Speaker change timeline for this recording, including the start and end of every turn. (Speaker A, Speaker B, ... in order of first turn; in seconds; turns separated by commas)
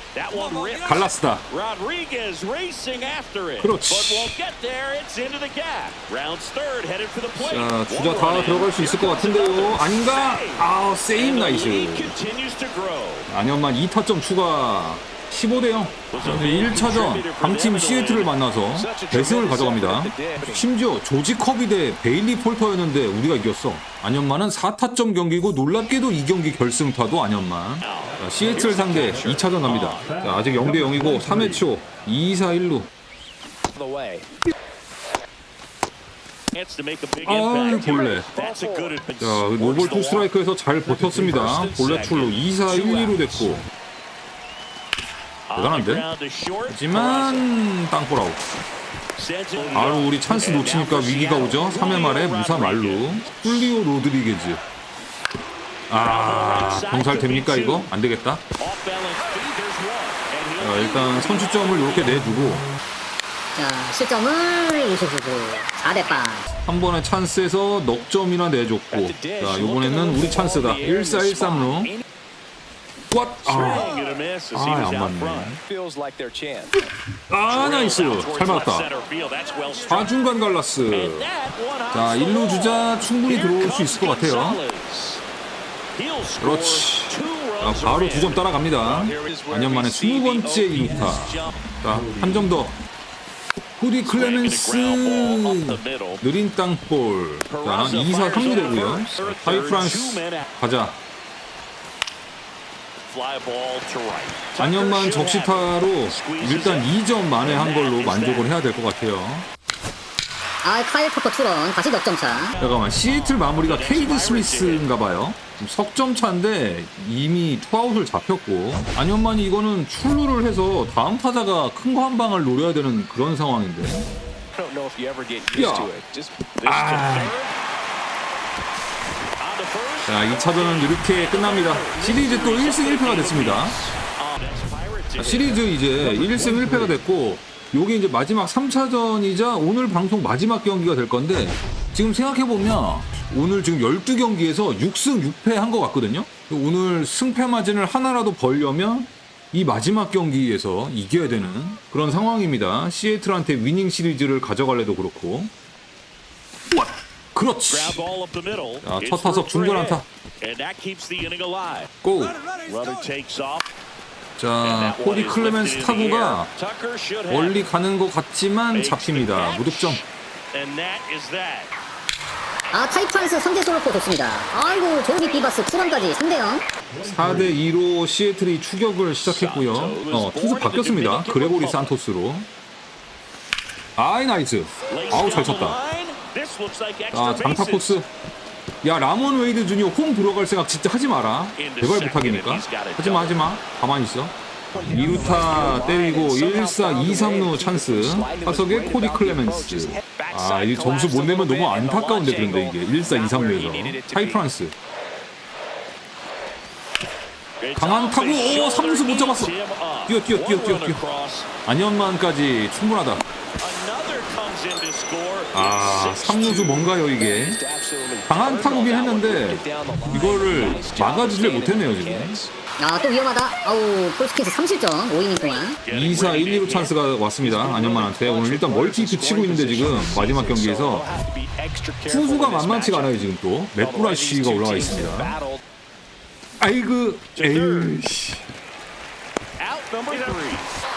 Speaker A: 0.1-13.3, Speaker B: 0.8-1.4, Speaker B: 3.6-4.4, Speaker B: 7.4-12.1, Speaker B: 13.3-32.9, Speaker A: 16.1-18.3, Speaker C: 18.7-20.7, Speaker A: 27.8-28.2, Speaker C: 28.5-29.5, Speaker A: 29.6-30.2, Speaker C: 33.7-34.3, Speaker A: 36.5-40.3, Speaker B: 37.2-38.3, Speaker C: 37.9-38.9, Speaker B: 39.2-43.6, Speaker C: 41.1-43.5, Speaker A: 45.5-47.5, Speaker B: 45.5-46.0, Speaker B: 46.7-48.4, Speaker A: 49.1-53.4, Speaker B: 49.7-54.6, Speaker B: 55.9-58.4, Speaker A: 56.0-57.9, Speaker A: 58.6-62.2, Speaker B: 60.6-62.7, Speaker D: 63.5-66.5, Speaker B: 66.5-71.9, Speaker C: 68.9-72.0, Speaker B: 73.1-73.9, Speaker A: 73.4-75.6, Speaker C: 73.9-74.2, Speaker B: 74.5-75.6, Speaker C: 75.6-76.8, Speaker B: 76.7-78.9, Speaker A: 77.5-80.1, Speaker B: 79.8-81.3, Speaker A: 80.9-85.2, Speaker B: 81.9-84.6, Speaker A: 85.9-88.4, Speaker B: 86.4-92.8, Speaker C: 88.8-90.6, Speaker A: 90.5-91.7, Speaker B: 93.8-101.0, Speaker A: 94.0-96.2, Speaker A: 97.5-100.5, Speaker A: 103.1-108.5, Speaker B: 104.6-109.5, Speaker D: 110.6-112.5, Speaker A: 112.5-114.9, Speaker B: 112.6-124.1, Speaker C: 124.5-126.4, Speaker B: 125.5-125.9, Speaker B: 126.6-127.3, Speaker A: 126.6-127.5, Speaker A: 129.4-135.6, Speaker B: 130.1-133.8, Speaker C: 131.9-132.3, Speaker B: 135.2-155.5, Speaker C: 135.5-136.9, Speaker B: 156.7-158.0, Speaker A: 157.7-161.9, Speaker B: 158.8-160.0, Speaker B: 162.0-162.4, Speaker A: 162.6-163.6, Speaker B: 164.4-166.5, Speaker A: 164.6-167.7, Speaker B: 167.3-170.0, Speaker A: 168.7-171.7, Speaker D: 172.7-176.7, Speaker B: 177.0-182.5, Speaker A: 179.2-181.9, Speaker B: 184.0-185.8, Speaker A: 184.9-188.0, Speaker B: 187.1-188.1, Speaker B: 188.8-204.7, Speaker A: 191.6-193.4, Speaker C: 194.7-204.4, Speaker A: 207.6-211.5, Speaker B: 207.8-209.5, Speaker B: 210.1-211.0, Speaker B: 211.7-213.2, Speaker A: 213.6-216.7, Speaker B: 215.5-217.6, Speaker C: 216.4-222.5, Speaker B: 218.3-222.4, Speaker D: 222.8-225.8, Speaker A: 225.8-226.9, Speaker B: 225.9-231.1, Speaker C: 227.4-233.2, Speaker B: 232.1-235.3, Speaker C: 233.8-235.6, Speaker B: 236.6-238.4, Speaker A: 237.3-237.9, Speaker A: 239.6-240.7